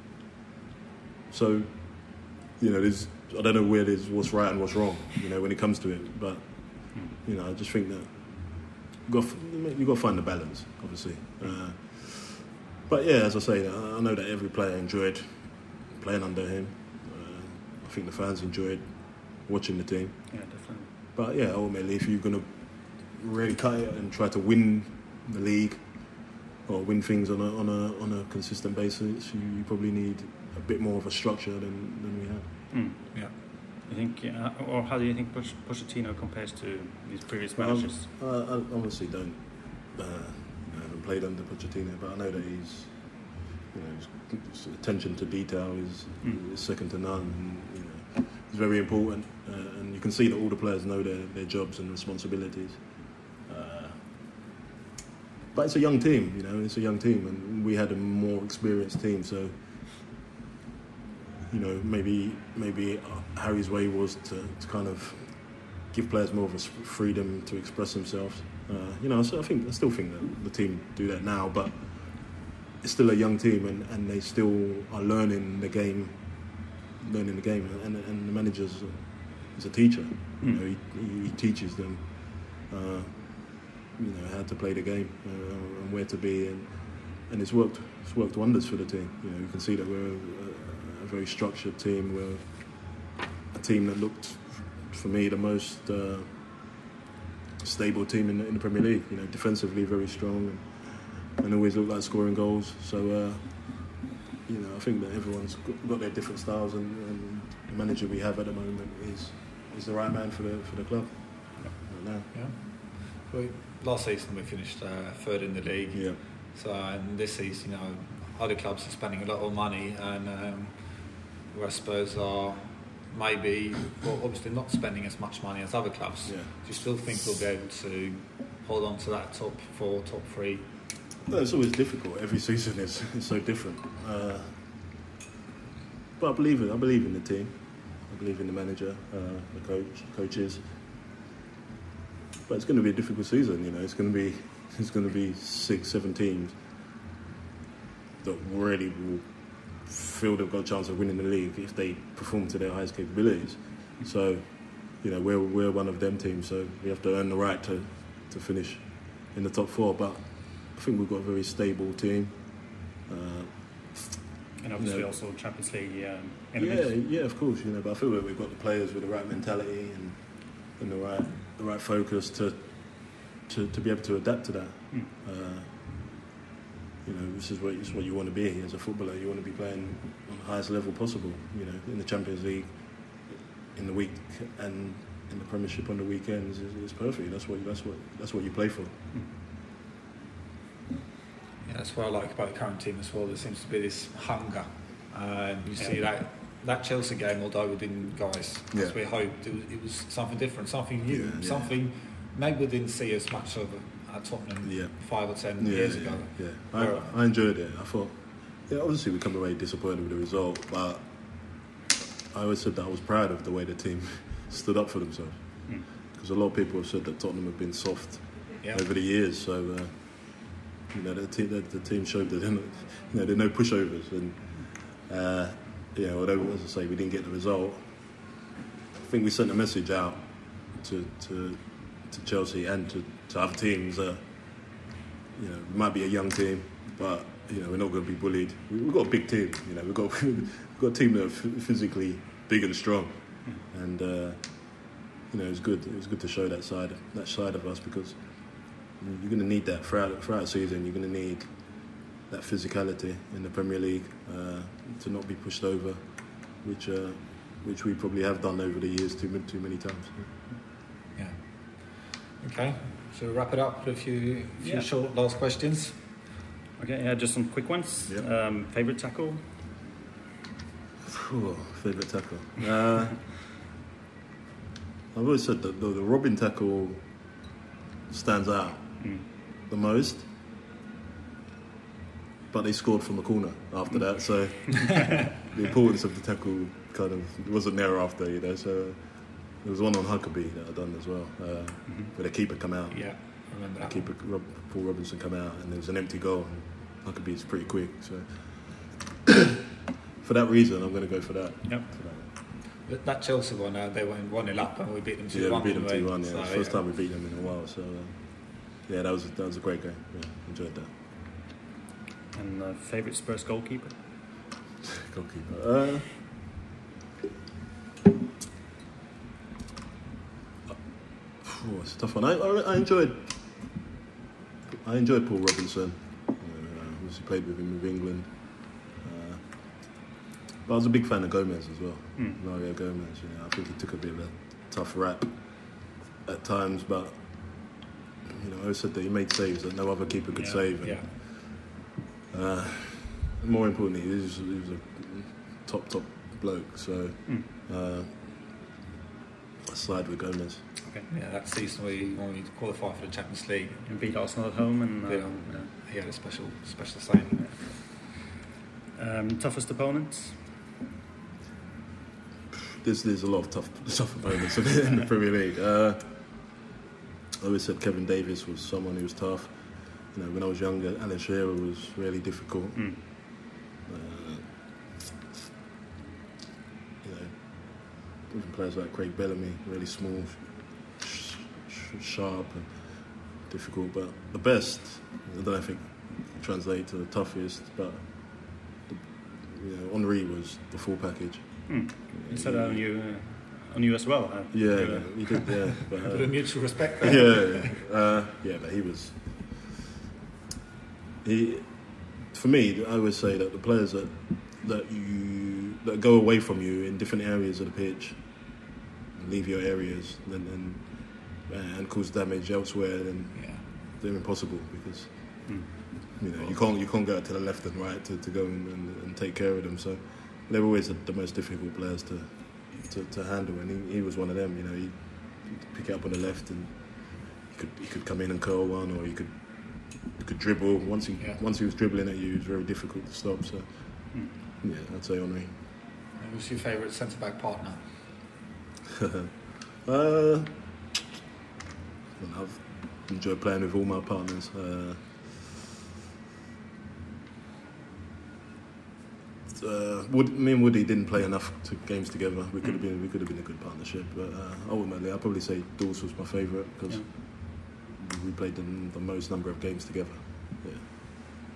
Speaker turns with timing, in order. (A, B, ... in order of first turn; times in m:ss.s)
0:01.3-0:20.4 A
0:20.3-0:20.9 B
0:21.1-0:32.5 A
0:32.7-0:33.2 B
0:33.9-0:38.1 B
0:37.6-0:54.0 A
0:55.5-0:59.6 A
1:01.5-1:36.4 A
1:37.6-1:52.3 A
1:52.3-2:10.7 C
1:55.9-1:56.2 A
2:06.2-2:06.5 A
2:11.2-2:14.6 A
2:16.2-2:20.6 A
2:22.4-2:26.6 A
2:28.2-2:44.2 A
2:44.6-2:46.9 B
2:44.8-2:45.1 A
2:46.5-2:56.0 A
2:57.0-3:09.0 A
3:11.6-3:27.2 C
3:18.7-3:19.0 A
3:21.1-3:21.8 A
3:24.6-3:31.6 A
3:32.3-3:48.2 A
3:49.0-3:54.8 A
3:55.3-4:20.3 A
4:21.1-4:26.0 C
4:24.6-4:24.9 B
4:26.8-4:29.4 B
4:31.0-4:33.3 A
4:35.1-4:37.1 A
4:38.1-4:40.3 A
4:39.0-4:39.2 B
4:42.5-4:59.3 A
4:52.9-4:54.0 C
5:00.2-5:02.2 A
5:02.8-5:06.8 C
5:05.3-5:10.9 A
5:12.3-5:14.0 B
5:15.0-5:16.3 A
5:21.4-5:23.7 A
5:24.7-5:29.8 A
5:30.6-5:41.6 A
5:40.3-5:41.1 C
5:42.3-5:48.2 A
5:49.6-5:50.6 A
5:51.1-5:54.2 C
5:53.9-5:55.7 B
5:55.0-5:57.6 C
5:59.0-6:00.4 B
6:02.8-6:06.6 A
6:07.4-6:13.1 A
6:12.8-6:13.0 B
6:13.8-6:14.7 A
6:17.0-6:32.8 A
6:31.7-6:35.9 B
6:34.5-6:39.6 A
6:36.0-6:37.8 C
6:41.2-6:48.5 A
6:49.1-7:15.6 A
6:53.3-6:53.6 C
6:55.4-6:56.2 B
7:16.2-7:17.8 C
7:19.0-7:19.3 A
7:19.8-7:20.8 A
7:22.2-7:25.4 A
7:29.5-7:40.8 A